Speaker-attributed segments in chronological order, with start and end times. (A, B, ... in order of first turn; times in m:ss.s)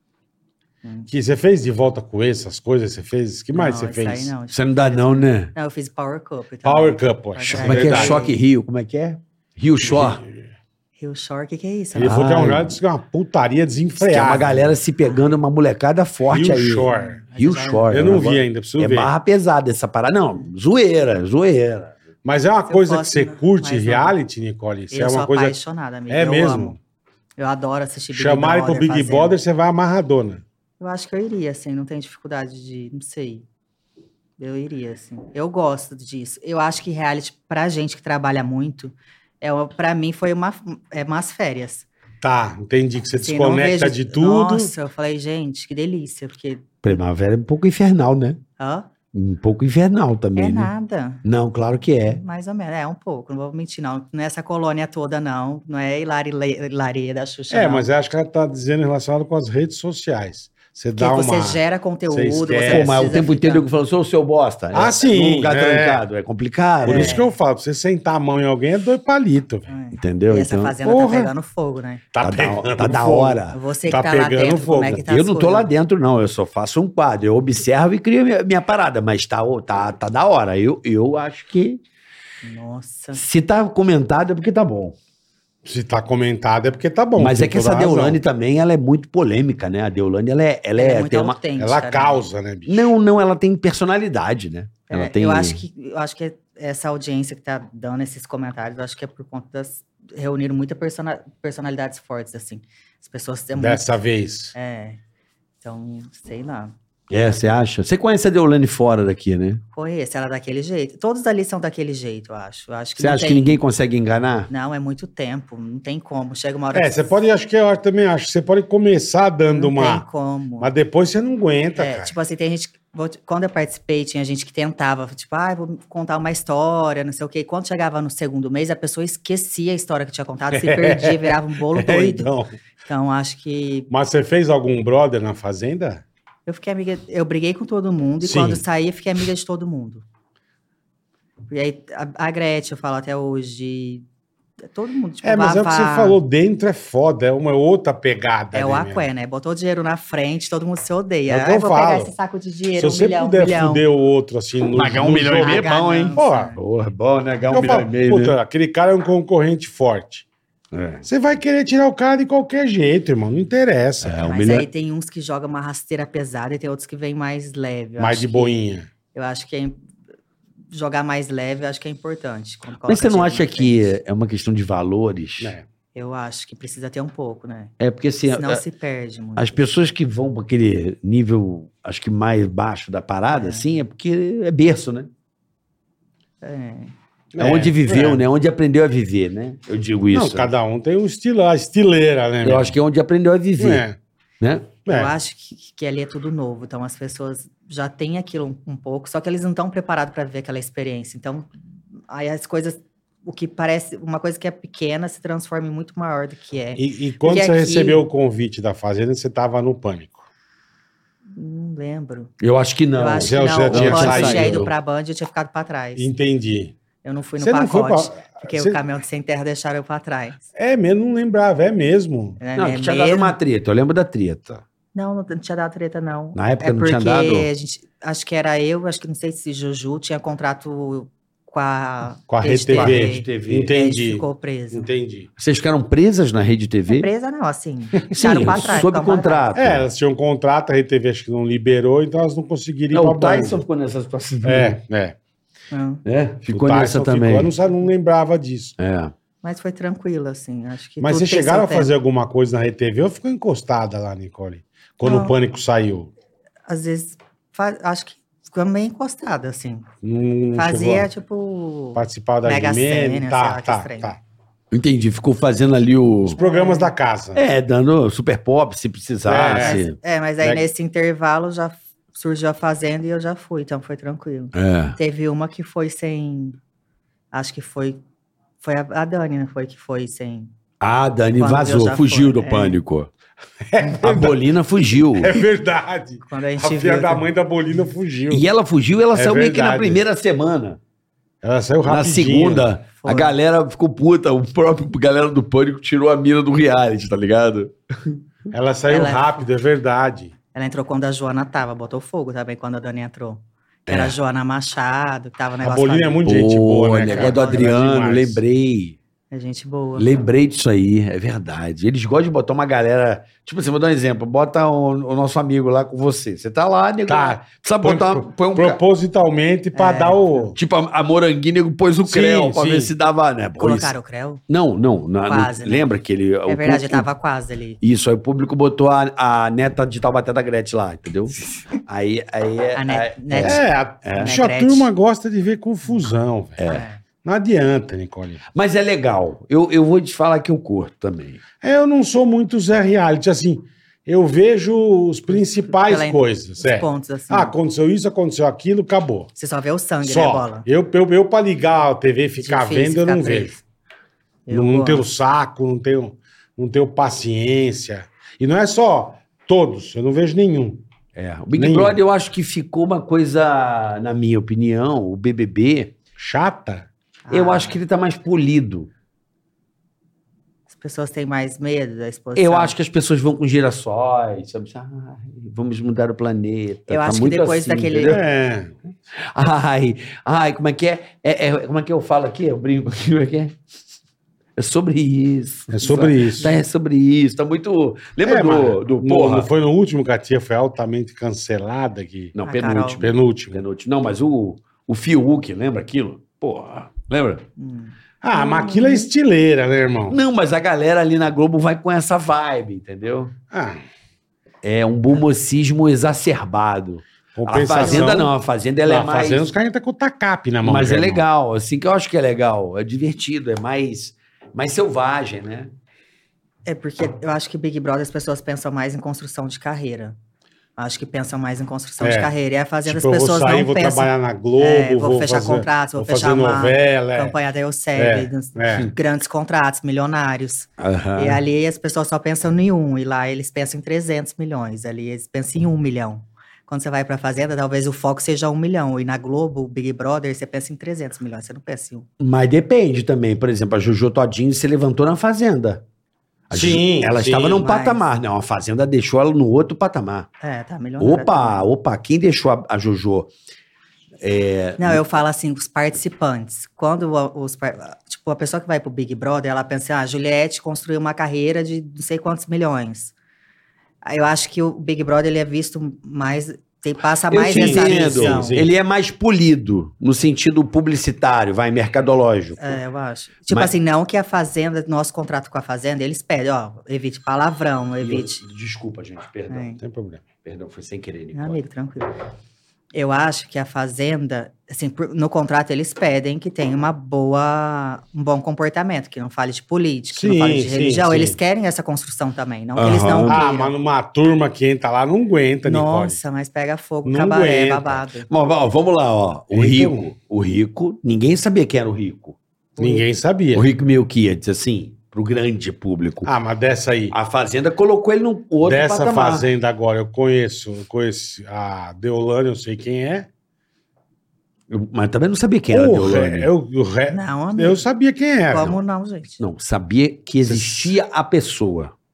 0:00.8-0:01.1 A
0:01.1-0:04.3 B
0:03.5-0:08.4 A
0:04.5-0:05.5 C
0:06.6-0:08.2 B
0:07.6-0:10.2 C
0:09.8-0:10.4 B
0:11.0-0:12.4 A
0:11.9-0:14.8 B
0:12.0-0:12.8 C
0:14.0-0:21.9 C
0:16.3-0:17.2 B
0:16.9-0:18.2 A
0:17.9-0:19.1 B
0:22.2-0:25.6 B
0:22.7-0:24.1 A
0:24.9-0:26.8 A
0:26.1-0:26.8 B
0:27.4-0:29.3 A
0:28.1-0:30.4 B
0:30.8-0:33.4 A
0:34.4-0:41.9 A
0:42.2-0:44.7 B
0:43.2-0:47.0 A
0:46.8-0:48.4 C
0:48.6-0:48.9 A
0:49.1-0:50.7 C
0:50.4-0:51.2 A
0:51.2-0:52.2 C
0:52.0-0:57.9 A
0:57.5-1:02.9 B
1:01.0-1:03.6 A
1:02.7-1:07.2 C
1:04.7-1:06.0 B
1:06.8-1:09.7 B
1:06.8-1:07.3 A
1:09.7-1:12.0 A
1:09.9-1:10.7 C
1:10.8-1:11.3 B
1:12.1-1:15.0 B
1:12.2-1:13.6 C
1:13.5-1:15.7 A
1:15.0-1:21.8 C
1:22.4-1:23.2 A
1:23.1-1:24.9 C
1:25.6-1:28.2 B
1:27.2-1:31.4 C
1:30.8-1:32.2 A
1:31.6-1:32.9 B
1:32.7-1:35.6 C
1:34.9-1:44.0 A
1:43.6-1:44.5 B
1:44.5-1:45.0 A
1:45.6-1:46.7 A
1:47.1-1:49.6 C
1:49.7-1:53.6 A
1:53.0-1:54.5 C
1:54.5-1:57.2 A
1:56.7-2:00.0 B
1:59.5-2:00.7 A
2:00.6-2:02.1 B
2:01.8-2:12.3 A
2:10.5-2:12.5 B
2:12.8-2:13.9 A
2:13.9-2:16.0 B
2:16.4-2:20.0 A
2:18.2-2:18.6 B
2:21.5-2:24.0 A
2:24.7-2:26.2 A
2:25.2-2:29.1 B
2:28.5-2:33.8 A
2:31.3-2:32.1 B
2:32.8-2:36.5 B
2:34.7-2:38.4 C
2:35.3-2:36.6 A
2:37.5-2:40.2 B
2:40.7-2:41.0 C
2:41.0-2:44.2 B
2:44.0-2:44.6 C
2:44.2-2:48.6 A
2:48.0-2:48.9 B
2:49.1-2:49.8 A
2:50.7-2:53.9 A
2:52.8-2:55.5 C
2:55.4-2:55.6 B
2:55.9-2:57.7 A
2:57.8-2:58.6 C
2:58.3-2:59.7 A
2:59.4-3:05.1 C
3:03.3-3:03.7 A
3:06.4-3:06.9 A
3:07.3-3:08.2 B
3:07.4-3:10.5 C
3:10.1-3:12.8 B
3:12.4-3:13.8 C
3:13.6-3:14.0 B
3:14.4-3:14.7 C
3:14.8-3:15.1 B
3:14.9-3:28.0 A
3:26.8-3:30.2 B
3:31.3-3:32.3 A
3:32.4-3:34.7 C
3:33.0-3:36.1 A
3:33.2-3:34.7 B
3:36.0-3:36.7 B
3:37.0-3:40.4 A
3:37.4-3:38.8 B
3:40.6-3:42.4 B
3:42.4-3:43.4 A
3:42.6-3:44.6 C
3:44.9-3:54.9 A
3:46.3-3:47.5 C
3:52.3-3:55.3 B
3:52.7-3:53.7 C
3:55.4-3:57.1 C
3:56.9-3:59.5 A
3:58.1-3:58.6 B
3:58.1-3:59.8 C
3:59.5-4:03.6 B
4:02.9-4:04.8 C
4:04.4-4:05.2 B
4:05.7-4:06.0 A
4:06.0-4:07.5 C
4:06.5-4:08.8 B
4:08.8-4:09.1 C
4:09.4-4:11.9 A
4:11.0-4:16.1 B
4:15.0-4:15.3 A
4:16.7-4:19.9 A
4:20.0-4:21.1 B
4:20.5-4:24.1 A
4:21.9-4:24.2 B
4:24.7-4:26.4 C
4:26.3-4:27.4 B
4:26.4-4:26.9 A
4:27.3-4:30.0 C
4:29.2-4:29.8 B
4:29.5-4:36.6 A
4:34.5-4:35.0 C
4:37.3-4:38.0 A
4:38.6-4:40.5 A
4:40.8-4:43.1 C
4:41.4-4:42.8 A
4:43.7-4:44.5 B
4:43.8-4:45.4 C
4:45.1-4:48.5 B
4:46.2-4:47.2 A
4:48.3-4:50.8 C
4:49.1-4:50.0 B
4:51.4-4:52.7 B
4:51.8-4:58.1 C
4:53.0-4:53.4 A
4:58.5-5:00.3 B
4:58.9-4:59.4 A
5:00.5-5:06.2 A
5:03.9-5:04.2 C
5:05.6-5:08.4 B
5:06.2-5:09.0 C
5:07.0-5:07.7 A
5:09.3-5:10.2 A
5:10.0-5:18.8 C
5:17.1-5:20.6 B
5:19.7-5:20.5 A
5:20.5-5:23.9 C
5:22.0-5:22.9 B
5:23.6-5:24.4 A
5:24.5-5:27.0 C
5:25.2-5:25.9 A
5:26.5-5:27.8 A
5:27.8-5:34.4 C
5:32.7-5:33.6 A
5:33.4-5:36.6 B
5:34.1-5:34.9 A
5:36.6-5:36.8 C
5:36.7-5:37.0 A
5:37.2-5:38.4 B
5:38.5-5:41.4 C
5:41.6-5:49.3 B
5:45.3-5:47.5 A
5:49.4-5:50.7 A
5:50.0-5:53.6 B
5:52.4-5:53.6 A
5:54.5-5:55.0 A
5:54.5-6:00.8 B
6:01.2-6:05.9 C
6:01.5-6:02.0 B
6:06.2-6:06.9 B
6:07.2-6:07.8 A
6:07.3-6:08.9 C
6:10.7-6:12.7 A
6:12.4-6:18.2 C
6:16.9-6:18.2 A
6:18.1-6:18.8 B
6:19.3-6:23.6 C
6:24.6-6:29.5 C
6:25.7-6:26.5 B
6:26.0-6:26.5 A
6:28.2-6:32.3 B
6:32.4-6:37.4 C
6:32.4-6:33.0 A
6:33.0-6:33.6 B
6:37.6-6:39.1 A
6:38.2-6:40.2 B
6:40.1-6:43.3 C
6:43.5-6:43.8 B
6:44.6-6:49.5 C
6:47.4-6:48.3 B
6:47.8-6:48.1 A
6:48.8-6:51.2 B
6:50.6-6:55.7 C
6:56.6-7:00.2 A
7:00.8-7:22.1 A
7:02.0-7:02.3 B
7:02.8-7:07.4 B
7:08.0-7:08.9 B
7:10.8-7:11.4 C
7:22.2-7:25.8 C
7:26.5-7:30.3 C
7:26.5-7:27.6 B
7:27.5-7:28.1 A
7:30.4-7:31.7 A
7:31.0-7:33.3 C
7:34.2-7:35.0 C
7:34.8-7:43.1 A
7:44.0-7:48.6 A
7:47.3-7:52.8 C
7:47.4-7:48.7 B
7:52.6-7:58.4 A
7:58.0-7:59.7 C
7:59.5-7:59.8 A
7:59.8-8:00.2 B
8:00.4-8:01.6 C
8:01.3-8:02.1 A
8:02.9-8:13.7 A
8:10.1-8:11.4 B
8:12.8-8:13.4 C
8:13.2-8:16.2 B
8:15.6-8:18.3 A
8:17.0-8:18.0 B
8:18.3-8:22.4 C
8:19.5-8:20.1 B
8:22.8-8:23.0 A
8:22.8-8:23.7 B
8:23.5-8:26.3 C
8:26.2-8:27.2 B
8:27.1-8:29.4 C
8:28.6-8:33.3 B
8:34.7-8:36.5 C
8:35.7-8:38.8 B
8:37.1-8:37.8 A
8:38.5-8:39.4 A
8:39.4-8:41.9 C
8:40.4-8:40.9 B